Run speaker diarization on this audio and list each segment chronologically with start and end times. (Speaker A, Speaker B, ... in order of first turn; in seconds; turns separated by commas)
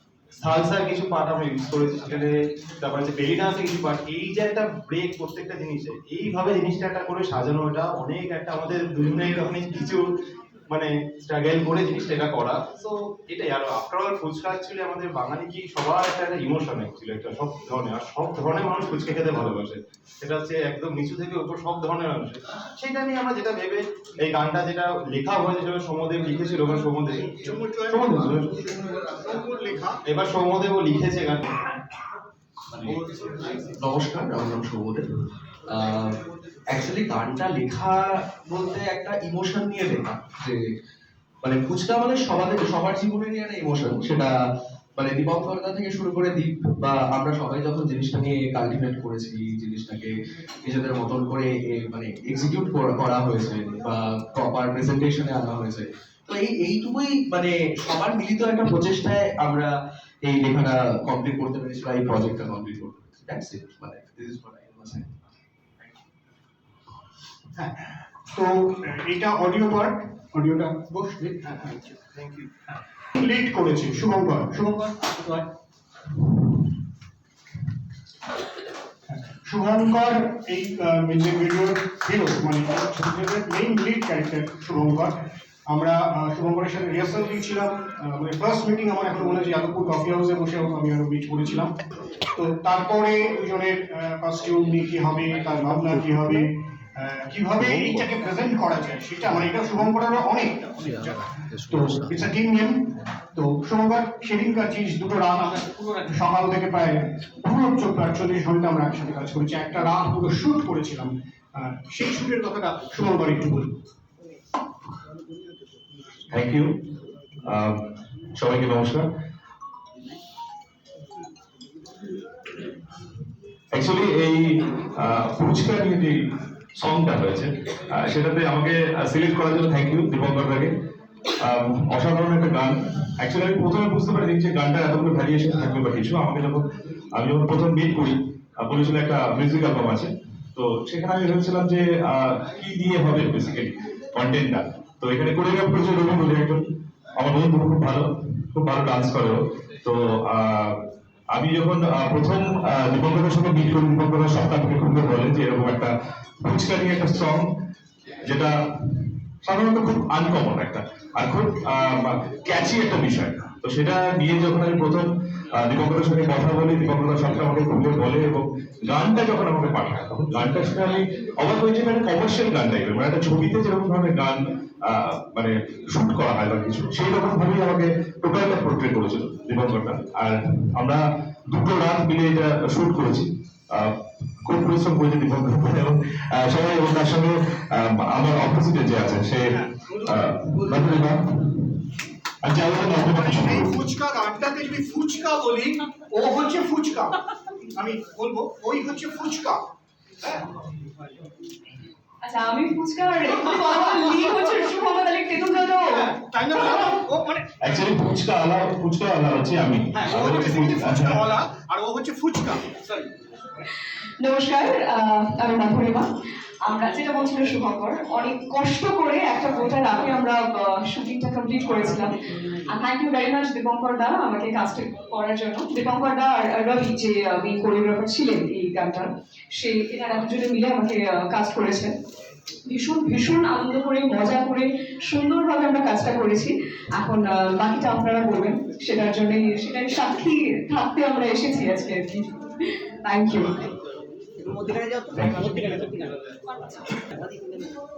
Speaker A: 0.3-10.1, Speaker A: 10.7-27.3, Speaker B: 27.2-30.0, Speaker A: 30.1-31.5, Speaker C: 32.7-35.1, Speaker C: 35.7-40.6, Speaker C: 41.4-44.4, Speaker C: 44.9-65.2, Speaker B: 68.3-75.4, Speaker B: 76.2-76.6, Speaker B: 79.1-85.1, Speaker B: 85.7-91.7, Speaker B: 92.3-113.7, Speaker D: 116.3-116.8, Speaker D: 117.4-117.8, Speaker D: 118.3-119.0, Speaker D: 123.7-130.7, Speaker D: 131.4-150.8, Speaker D: 151.3-157.5, Speaker D: 158.2-191.8, Speaker B: 189.5-190.3, Speaker D: 192.4-193.8, Speaker B: 193.0-197.1, Speaker B: 197.7-199.6, Speaker E: 202.2-206.1, Speaker B: 204.0-204.7, Speaker B: 205.5-207.5, Speaker D: 207.6-211.2, Speaker B: 209.9-213.0, Speaker E: 214.2-216.1, Speaker E: 216.6-222.1, Speaker E: 222.7-231.9, Speaker E: 232.7-243.5, Speaker F: 244.4-247.7, Speaker D: 245.1-245.6